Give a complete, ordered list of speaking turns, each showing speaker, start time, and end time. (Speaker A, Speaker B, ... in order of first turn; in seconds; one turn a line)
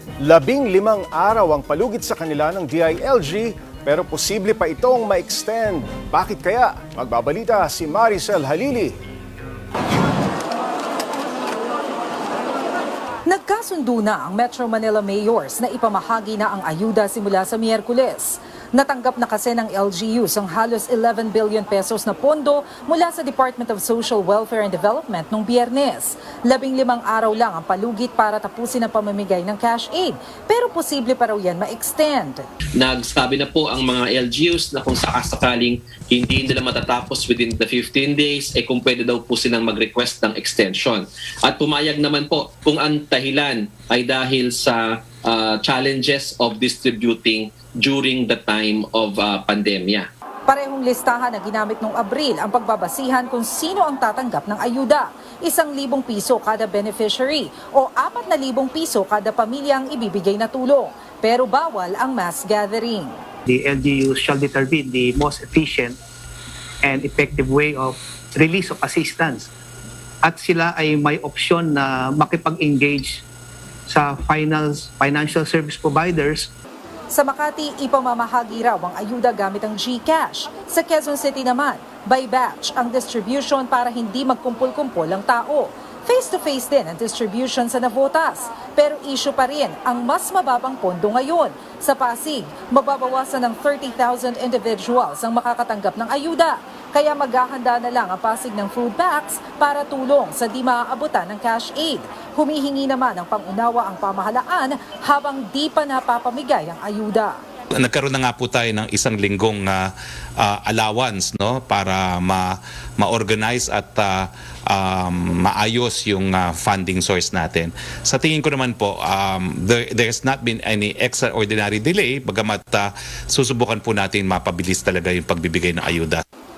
Speaker A: 0.2-8.9
Speaker B: 13.2-32.4
Speaker C: 32.8-50.1
Speaker B: 50.5-63.2
Speaker D: 63.5-66.0
Speaker D: 66.8-69.5
Speaker D: 70.2-73.2
Speaker D: 73.9-76.5
Speaker B: 77.1-107.4
Speaker E: 107.8-126.2